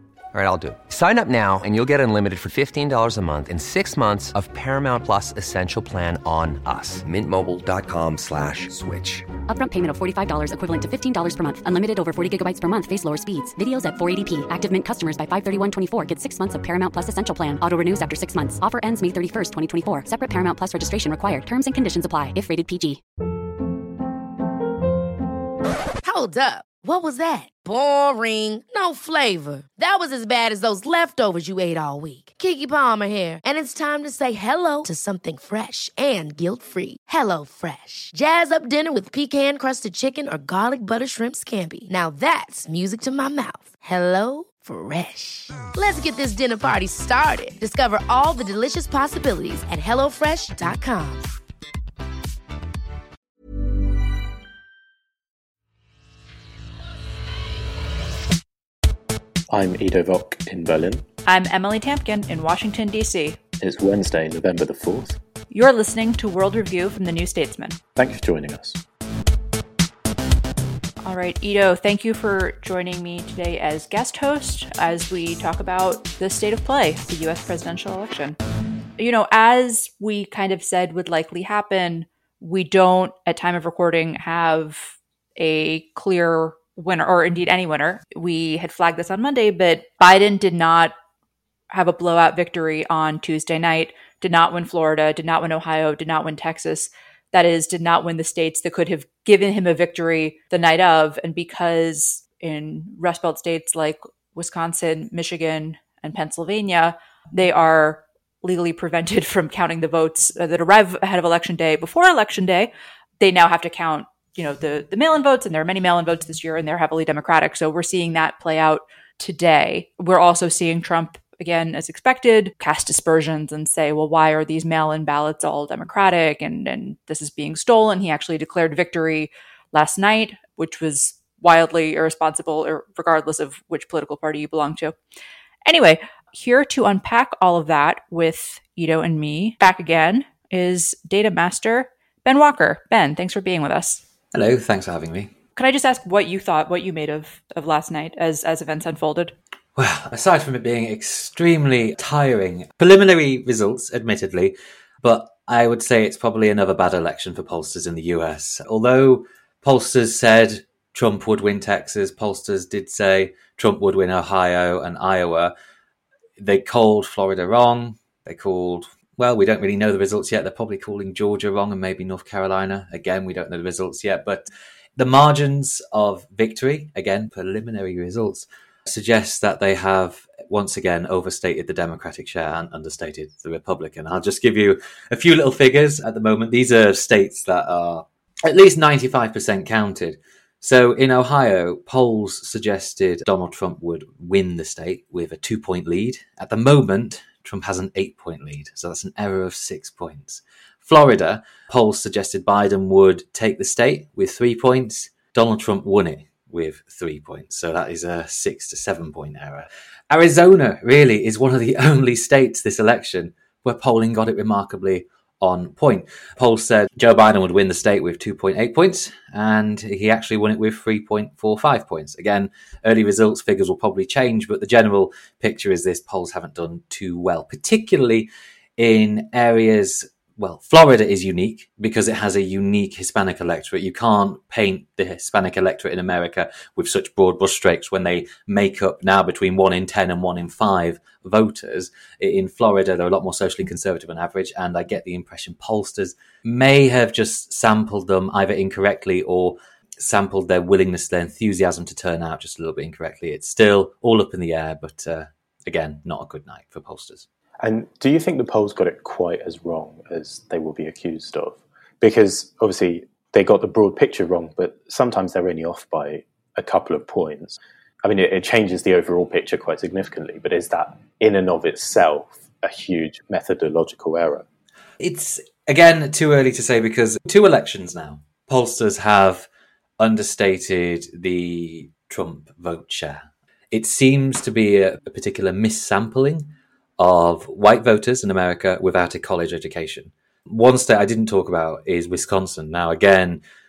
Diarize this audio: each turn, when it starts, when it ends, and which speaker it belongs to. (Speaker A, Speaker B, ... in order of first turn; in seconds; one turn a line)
Speaker A: 0.3-9.3
Speaker B: 9.5-23.0
Speaker C: 26.0-51.3
Speaker D: 59.5-61.0
Speaker E: 61.3-63.4
Speaker D: 63.6-65.2
Speaker E: 65.5-67.8
Speaker D: 68.0-68.8
Speaker E: 71.0-78.4
Speaker E: 79.0-90.9
Speaker E: 91.7-135.0
Speaker E: 135.7-144.0
Speaker F: 144.3-145.3
Speaker E: 145.6-149.3
Speaker F: 149.8-165.5
Speaker F: 166.4-257.3
Speaker D: 257.6-274.5
Speaker F: 275.0-279.5
Speaker F: 280.0-293.4